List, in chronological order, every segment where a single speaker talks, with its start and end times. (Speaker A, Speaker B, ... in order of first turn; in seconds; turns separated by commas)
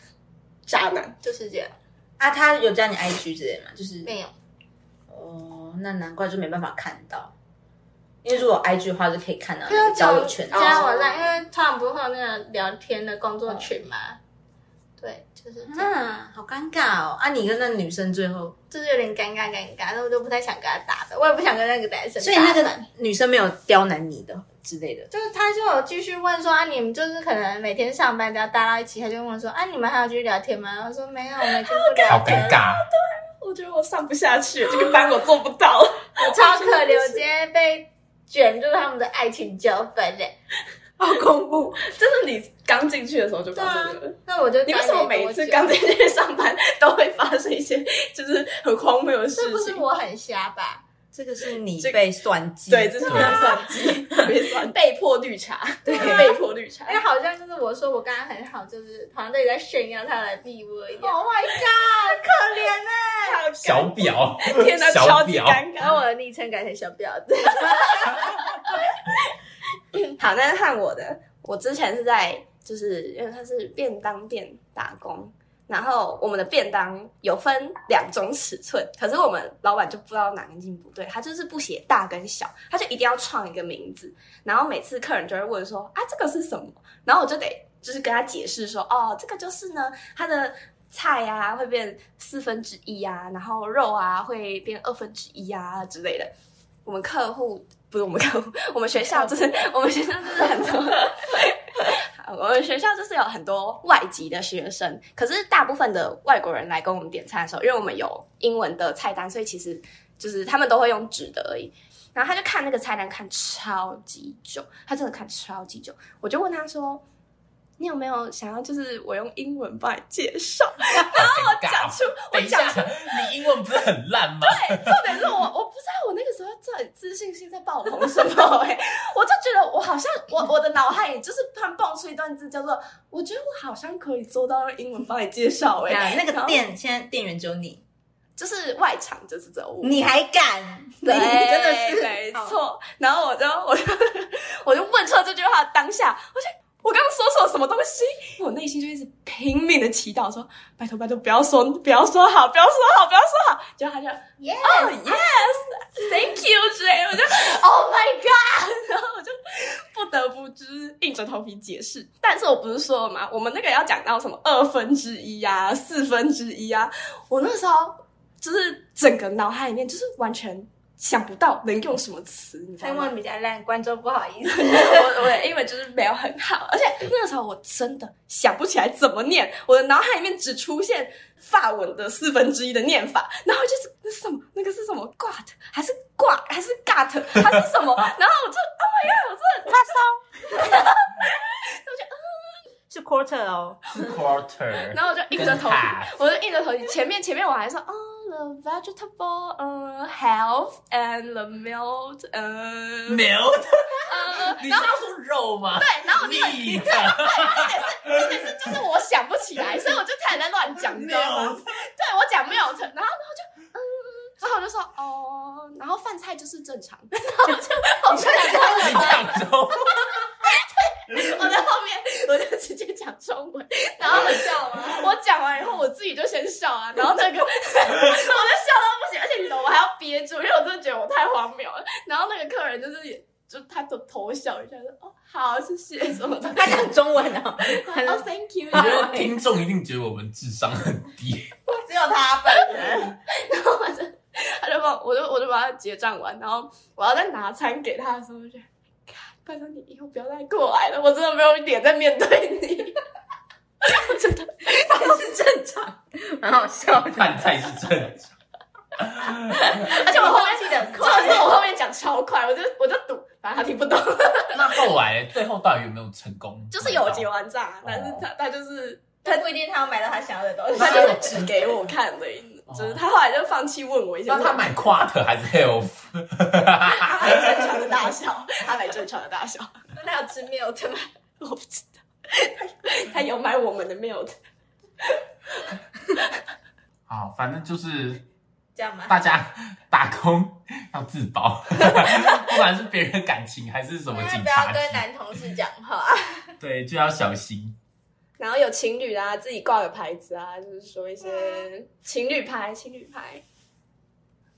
Speaker A: 0.7-1.1, Speaker B: 1.2-1.7, Speaker C: 2.2-4.1, Speaker B: 4.0-4.3, Speaker C: 5.1-7.3, Speaker C: 8.2-10.8, Speaker B: 9.7-14.2, Speaker A: 10.5-11.3, Speaker B: 15.0-15.9, Speaker C: 15.7-18.6, Speaker B: 18.7-22.8, Speaker C: 22.2-25.1, Speaker B: 25.1-32.6, Speaker A: 31.6-37.2, Speaker D: 32.0-32.8, Speaker B: 36.2-40.3, Speaker C: 41.0-41.8, Speaker A: 41.8-49.8, Speaker B: 43.5-45.8, Speaker B: 49.4-50.8, Speaker C: 51.1-54.3, Speaker A: 52.7-57.0, Speaker D: 53.1-53.4, Speaker C: 55.9-56.3, Speaker B: 55.9-56.4, Speaker B: 56.9-63.4, Speaker A: 63.2-66.0, Speaker D: 63.6-65.6, Speaker B: 65.8-68.8, Speaker A: 70.2-96.3, Speaker A: 96.8-117.0, Speaker C: 99.0-99.6, Speaker A: 117.8-123.4, Speaker D: 121.0-124.9, Speaker A: 124.4-136.6, Speaker C: 135.9-137.8, Speaker A: 138.4-140.0, Speaker C: 139.8-142.6, Speaker A: 141.0-173.1, Speaker B: 154.4-155.2, Speaker B: 172.8-175.1, Speaker A: 174.4-189.8, Speaker C: 189.7-190.2, Speaker A: 190.5-192.6, Speaker C: 192.9-193.8, Speaker D: 193.9-196.1, Speaker A: 194.8-203.2, Speaker D: 203.1-207.7, Speaker A: 204.1-205.0, Speaker A: 205.7-219.4, Speaker D: 210.9-211.6, Speaker C: 218.1-219.1, Speaker D: 218.5-220.2, Speaker A: 219.9-236.9, Speaker B: 224.2-225.0, Speaker C: 236.5-239.4, Speaker A: 237.6-239.0, Speaker D: 238.7-241.5, Speaker B: 241.7-243.2, Speaker A: 243.4-253.0, Speaker A: 253.8-254.7, Speaker C: 254.7-257.6, Speaker D: 256.9-258.3, Speaker D: 259.0-260.1, Speaker A: 259.5-264.8, Speaker B: 260.0-261.5, Speaker D: 264.5-267.3, Speaker A: 266.7-269.4, Speaker D: 267.8-268.3, Speaker B: 269.2-271.4, Speaker A: 270.7-274.8, Speaker D: 270.8-271.5, Speaker D: 272.7-273.0, Speaker D: 274.3-277.0, Speaker A: 276.9-279.7, Speaker B: 279.9-281.1, Speaker A: 281.4-284.3, Speaker A: 285.0-285.7, Speaker D: 287.1-288.2, Speaker B: 288.7-289.2, Speaker D: 289.1-295.0, Speaker B: 294.1-296.5, Speaker D: 296.6-297.8, Speaker A: 298.4-303.4